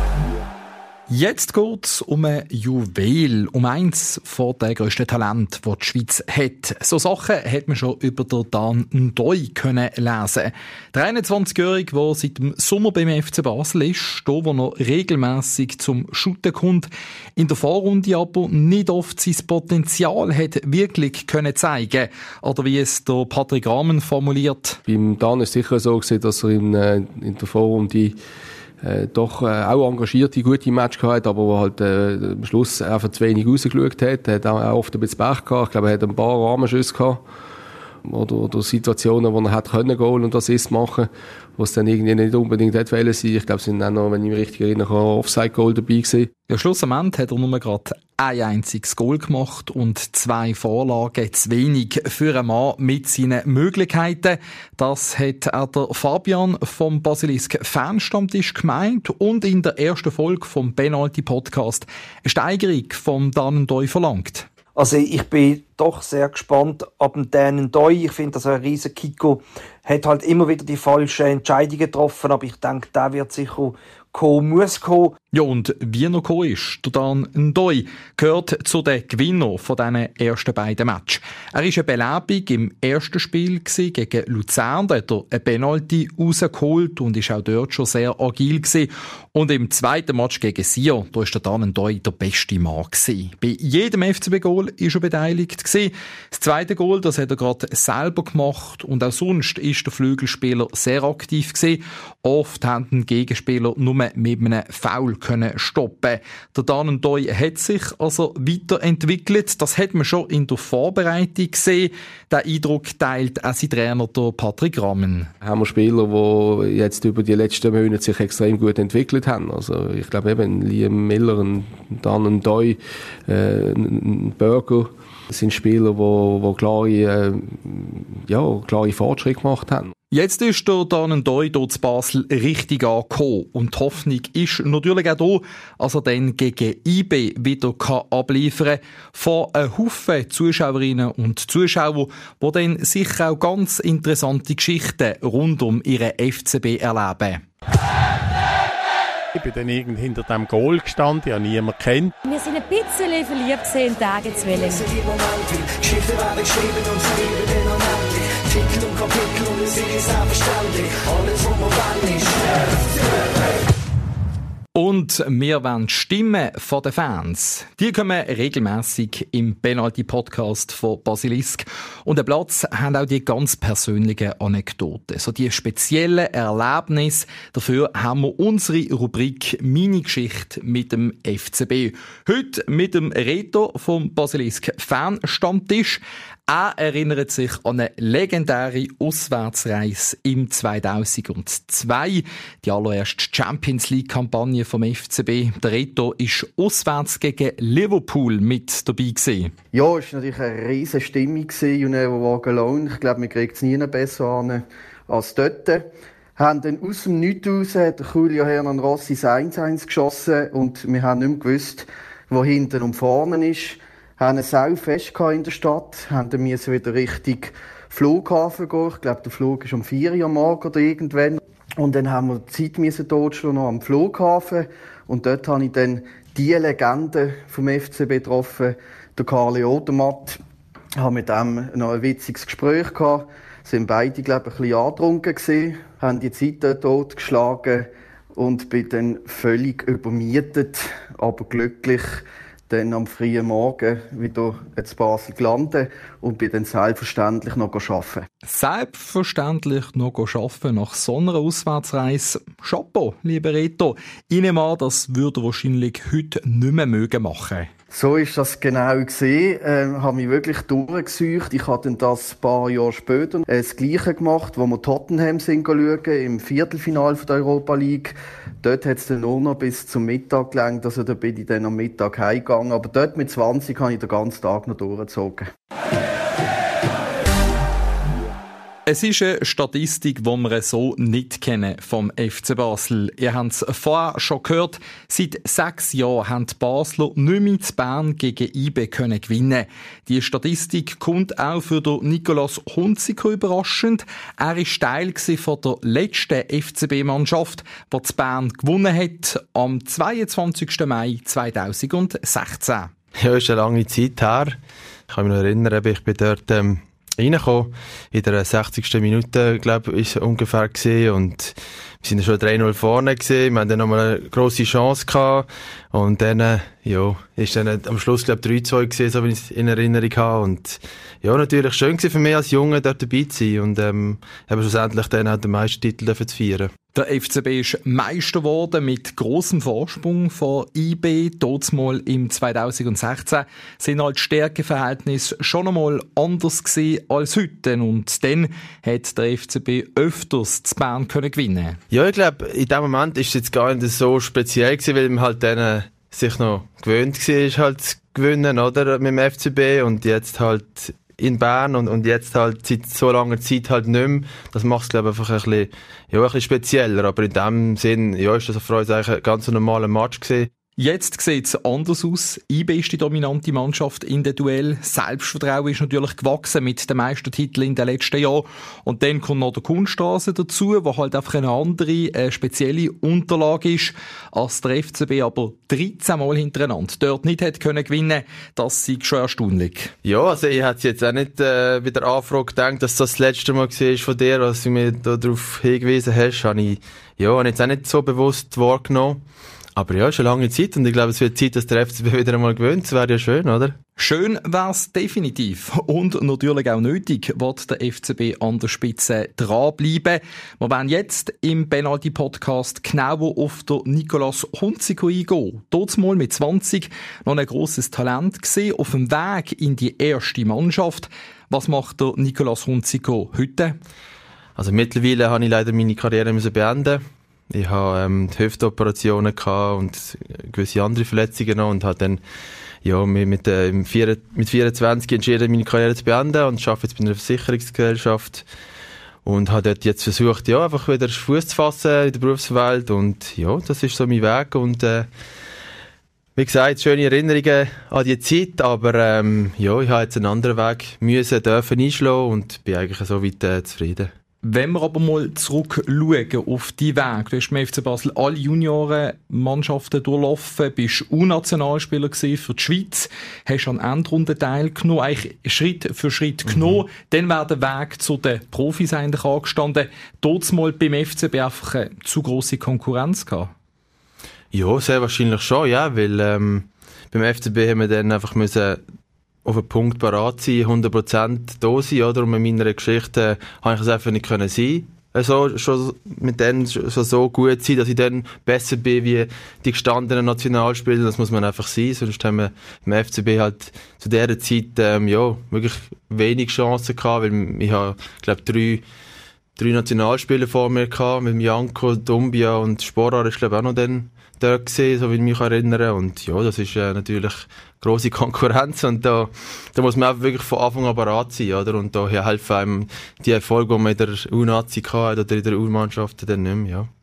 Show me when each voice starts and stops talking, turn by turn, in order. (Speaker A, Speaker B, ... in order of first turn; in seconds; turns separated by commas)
Speaker A: 1.1-24.8, Speaker B: 24.9-28.2, Speaker B: 28.8-37.2, Speaker B: 38.0-46.3, Speaker A: 46.5-64.5, Speaker C: 64.8-75.1, Speaker A: 75.3-115.3, Speaker B: 115.4-129.9, Speaker A: 130.1-147.4, Speaker D: 149.3-152.1, Speaker E: 152.3-154.8, Speaker C: 154.9-162.7, Speaker A: 164.7-199.5, Speaker F: 199.7-205.8, Speaker F: 206.4-230.4, Speaker F: 231.0-248.2, Speaker A: 248.4-257.7, Speaker F: 257.9-275.5, Speaker A: 278.9-302.9, Speaker G: 303.2-304.6, Speaker G: 305.1-326.7, Speaker A: 326.9-341.8, Speaker G: 341.9-360.5, Speaker A: 360.8-379.9, Speaker G: 380.0-389.2, Speaker G: 389.8-393.8, Speaker A: 394.0-413.8, Speaker G: 414.6-422.2, Speaker G: 422.8-428.4, Speaker G: 429.2-435.1, Speaker G: 436.4-444.1, Speaker A: 444.4-463.5, Speaker G: 456.5-456.8, Speaker G: 464.5-468.8, Speaker G: 469.4-488.8, Speaker G: 489.6-506.9